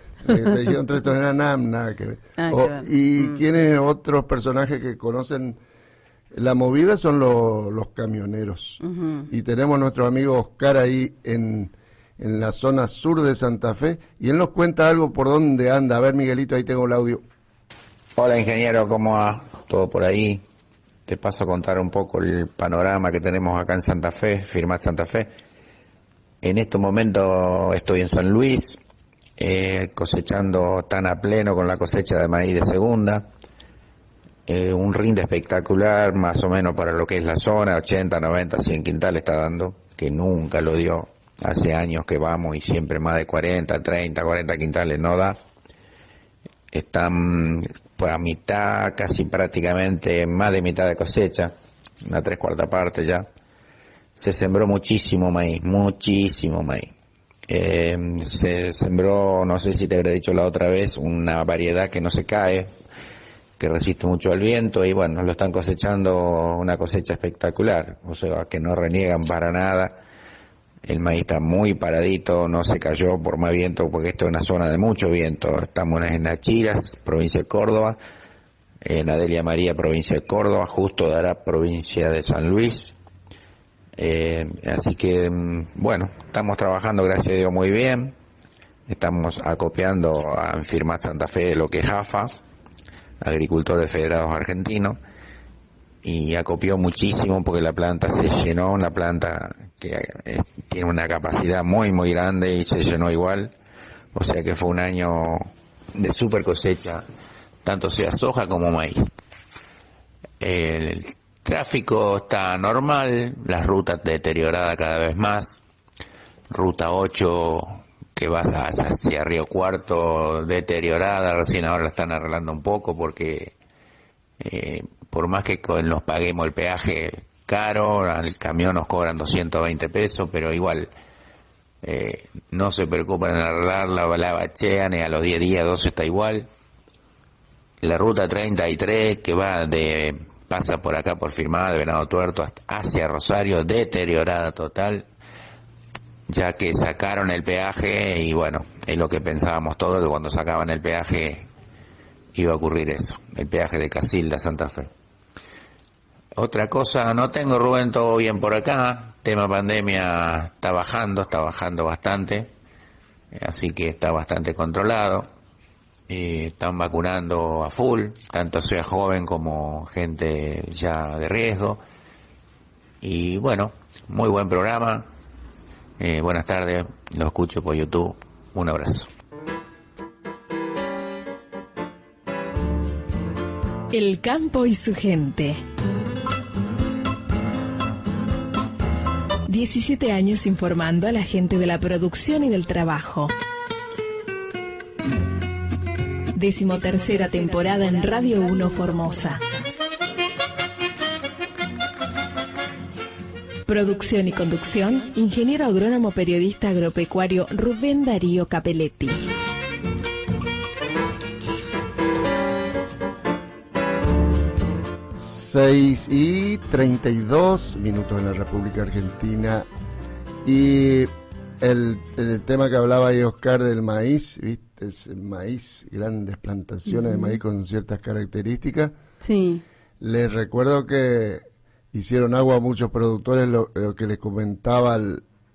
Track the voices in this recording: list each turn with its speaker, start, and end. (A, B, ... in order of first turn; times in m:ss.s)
0:00.2-0:05.6 A
0:02.4-0:03.4 B
0:06.3-0:17.2 A
0:08.8-0:09.3 B
0:18.2-0:20.4 C
0:21.1-0:25.3 C
0:26.4-0:28.8 C
0:29.4-0:33.2 C
0:34.5-0:45.4 C
0:46.7-0:53.3 C
0:54.2-0:56.9 C
0:57.5-1:02.7 C
1:03.6-1:10.0 C
1:10.9-1:18.0 C
1:18.8-1:23.0 C
1:24.0-1:28.1 C
1:28.9-1:32.3 C
1:33.2-1:35.0 C
1:36.0-1:43.5 C
1:44.1-1:47.0 C
1:47.6-1:49.1 C
1:50.4-1:55.6 C
1:56.5-2:03.5 C
2:04.4-2:10.9 C
2:11.8-2:16.5 C
2:17.8-2:25.1 C
2:26.3-2:31.5 C
2:32.3-2:34.9 C
2:36.4-2:42.5 C
2:43.3-2:45.3 C
2:46.1-2:51.8 C
2:53.0-2:55.1 C
2:56.0-2:59.1 C
3:03.9-3:05.6 D
3:09.5-3:13.3 D
3:16.4-3:19.5 D
3:23.7-3:29.2 D
3:35.1-3:39.7 A
3:40.4-3:49.0 A
3:46.9-3:47.4 B
3:49.2-3:49.6 B
3:50.0-3:55.2 A